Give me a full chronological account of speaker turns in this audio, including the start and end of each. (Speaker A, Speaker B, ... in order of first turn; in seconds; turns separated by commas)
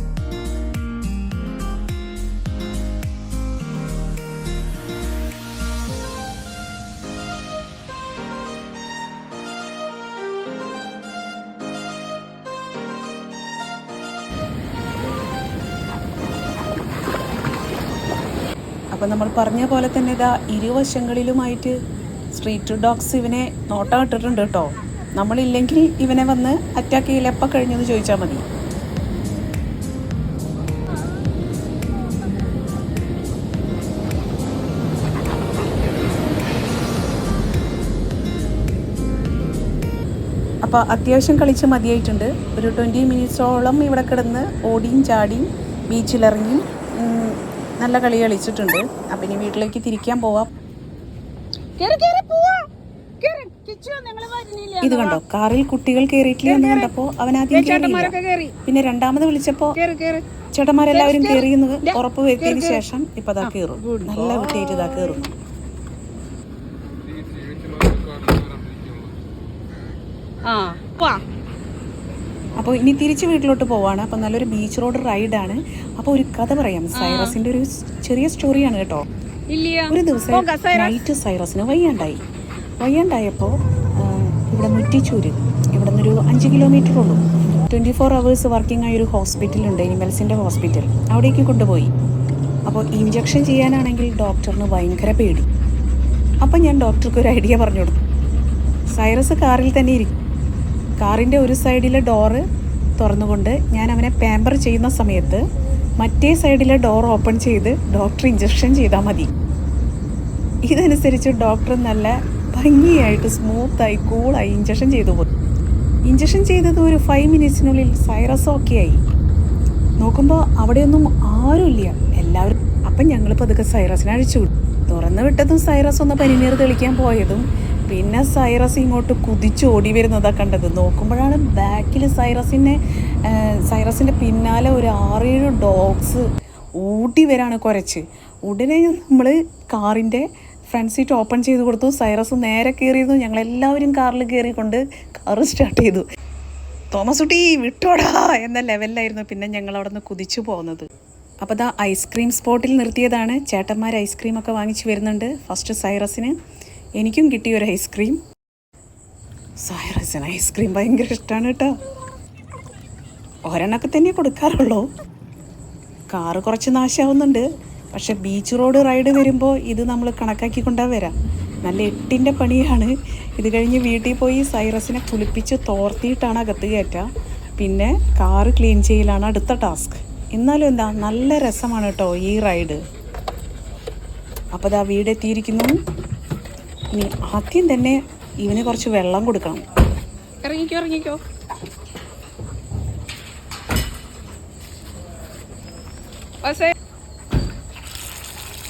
Speaker A: 18.9-21.7, Speaker A: 22.3-28.5, Speaker A: 40.6-50.5, Speaker B: 51.8-52.7, Speaker B: 53.2-55.2, Speaker A: 54.8-58.1, Speaker B: 56.5-56.9, Speaker B: 57.5-58.5, Speaker A: 58.6-59.8, Speaker B: 59.8-60.2, Speaker A: 60.5-65.3, Speaker B: 60.9-62.8, Speaker B: 63.4-65.1, Speaker C: 67.2-68.8, Speaker C: 70.5-71.2, Speaker B: 70.6-71.2, Speaker A: 72.6-79.0, Speaker B: 76.9-77.3, Speaker B: 79.5-80.8, Speaker A: 79.9-82.2, Speaker A: 82.8-91.9, Speaker A: 92.7-95.5, Speaker A: 96.4-98.0, Speaker A: 98.9-100.1, Speaker A: 101.0-102.4, Speaker A: 103.0-105.4, Speaker A: 106.0-109.3, Speaker A: 110.7-115.3, Speaker A: 116.1-119.0, Speaker A: 120.0-136.2, Speaker A: 136.8-146.0, Speaker A: 146.9-150.9, Speaker A: 151.4-156.3, Speaker A: 157.0-158.2, Speaker A: 159.6-161.7, Speaker A: 163.5-164.9, Speaker A: 166.1-171.1, Speaker A: 171.6-177.1, Speaker A: 177.6-182.8, Speaker A: 184.5-185.7, Speaker A: 186.9-189.6, Speaker B: 190.4-191.2, Speaker B: 196.4-196.7